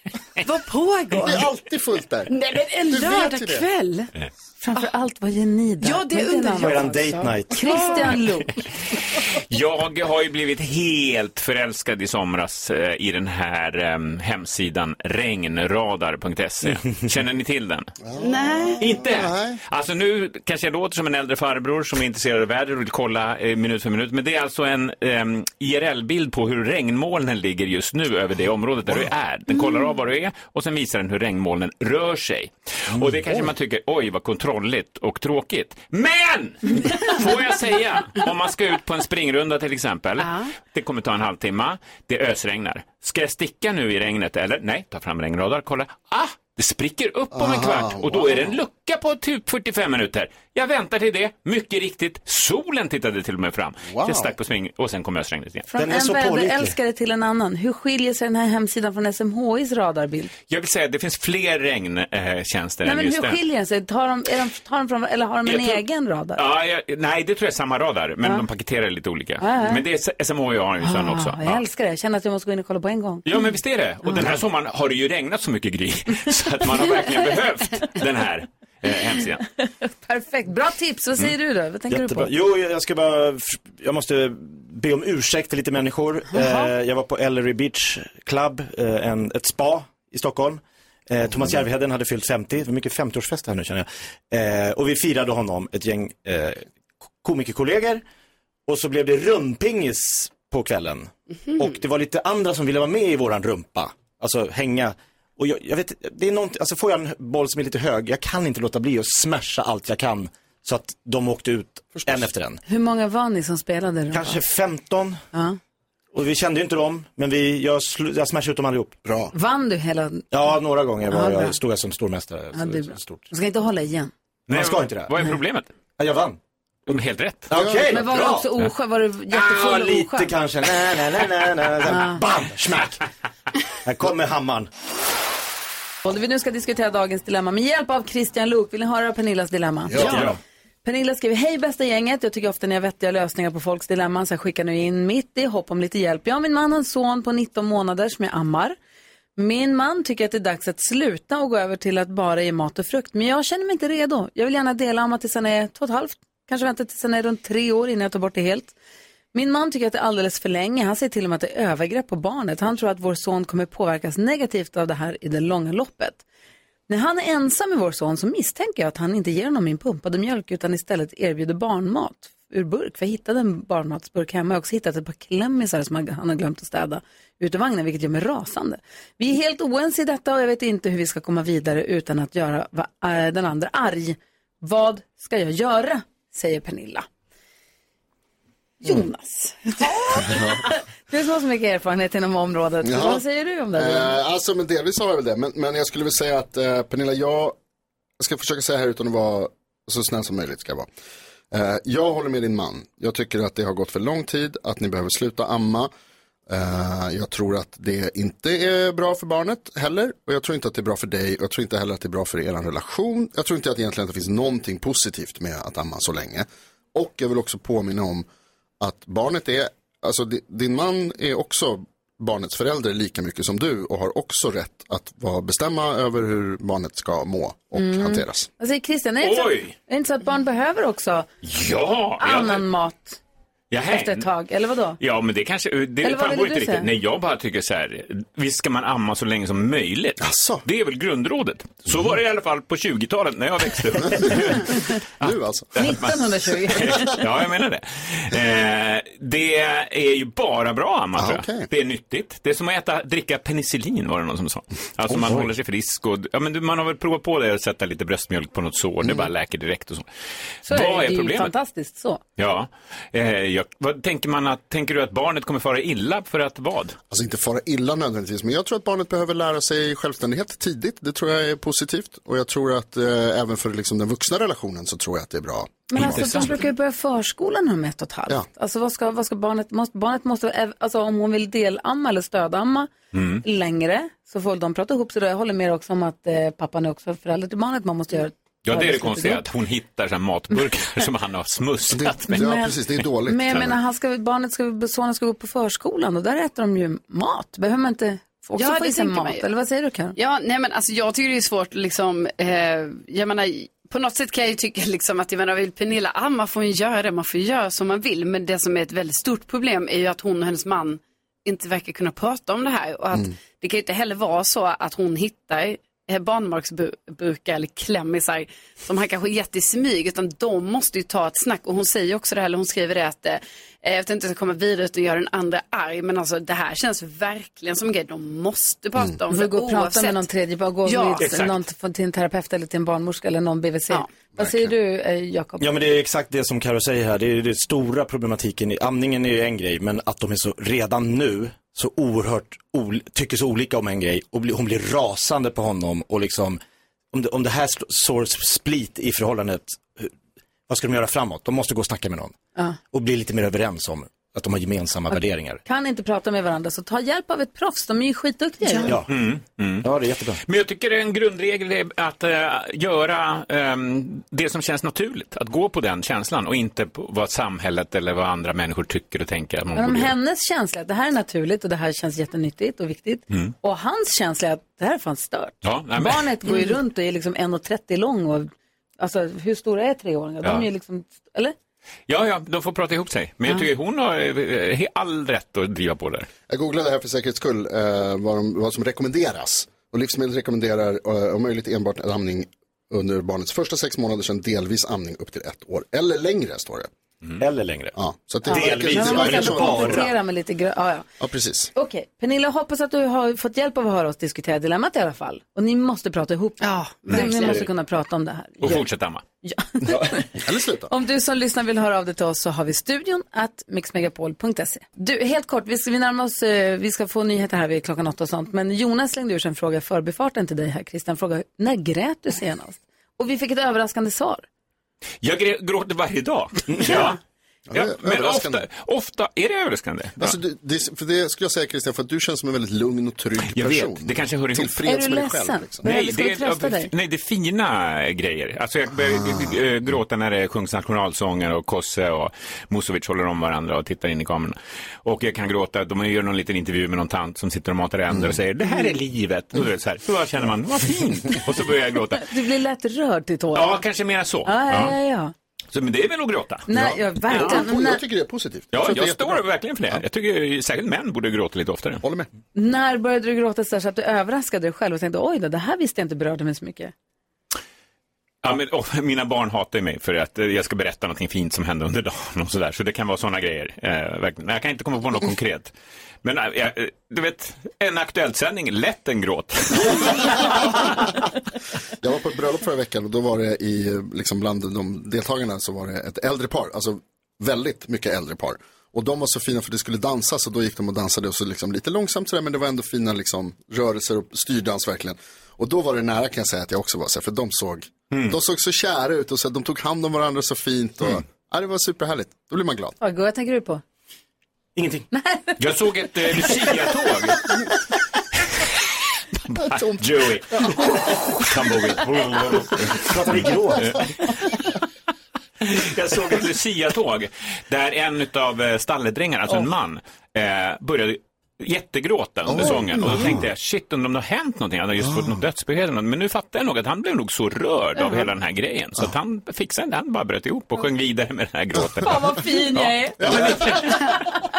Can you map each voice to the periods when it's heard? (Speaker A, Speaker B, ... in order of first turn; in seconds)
Speaker A: 0.4-1.5, 2.3-4.1, 5.8-7.0, 7.6-8.1, 18.2-18.8, 40.2-40.5, 298.6-299.5, 300.2-330.3, 330.9-331.3, 358.7-358.9, 406.6-407.6
Speaker B: 1.2-2.4, 2.9-3.7, 18.1-19.6, 47.3-48.6, 53.9-54.3, 112.0-112.3, 119.0-119.3, 127.5-127.9, 139.9-140.3, 190.2-190.6, 192.8-197.6, 198.2-200.9, 201.5-205.9, 206.5-218.3, 218.8-228.5, 240.2-240.7, 245.2-246.0, 251.2-251.7, 259.0-259.3, 267.1-276.5, 291.9-293.8, 334.4-334.7, 386.5-396.9, 398.0-400.1, 401.2-401.7, 410.4-410.9, 427.7-428.7, 430.2-435.9, 439.1-439.6, 456.7-460.0, 462.0-462.3, 480.1-480.9, 482.0-503.0, 509.7-510.0, 522.5-523.4, 533.2-533.5
Speaker C: 4.6-8.6, 55.7-60.3, 62.8-66.4, 69.4-69.8, 70.8-73.3, 79.6-82.3, 86.3-86.7, 112.7-114.4, 119.3-120.2, 121.1-121.5, 122.5-124.1, 127.8-130.3, 131.9-132.2, 136.1-140.3, 140.8-148.8, 149.4-158.8, 159.3-166.2, 166.9-187.1, 188.8-194.2, 227.7-231.3, 232.2-233.2, 233.9-235.0, 236.0-236.9, 245.8-247.2, 260.7-262.2, 275.9-282.9, 283.4-289.4, 292.3-300.1, 329.3-335.7, 355.1-358.9, 369.7-381.6, 398.5-401.1, 401.8-408.9, 409.4-424.4, 434.8-436.9, 452.2-453.8, 454.4-455.3, 456.7-458.0, 462.6-466.9, 503.0-503.8, 505.1-505.4, 532.0-534.2
Speaker D: 6.6-8.0, 55.8-56.8, 81.9-96.7, 97.2-98.0, 98.7-112.6, 114.1-115.2, 116.1-119.0, 120.3-123.2, 124.5-125.3, 126.0-126.4, 127.5-128.6, 129.3-133.0, 133.8-134.7, 140.0-140.3, 335.6-346.6, 347.1-350.1, 350.7-352.4, 352.9-355.6, 358.8-359.1, 359.8-360.4, 397.4-397.9, 398.5-400.1, 407.4-407.7, 426.7-427.1, 504.8-505.1, 512.9-514.0, 533.2-533.8
Speaker E: 9.3-17.9, 18.8-55.7, 60.5-63.4, 65.4-65.8, 66.4-71.6, 73.2-79.4, 124.5-125.8, 126.9-127.5, 229.2-229.7, 231.4-232.6, 233.7-234.3, 235.0-246.2, 246.7-260.1, 260.6-261.5, 262.4-267.0, 276.0-276.6, 283.1-283.4, 288.6-292.4, 331.2-331.6, 359.1-359.9, 360.4-370.1, 375.6-376.3, 382.1-386.3, 408.6-409.2, 425.2-427.2, 427.7-430.4, 433.4-434.8, 435.8-452.3, 453.5-455.0, 455.7-456.7, 458.7-462.0, 468.4-480.4, 505.6-507.6, 509.5-514.0, 515.6-532.9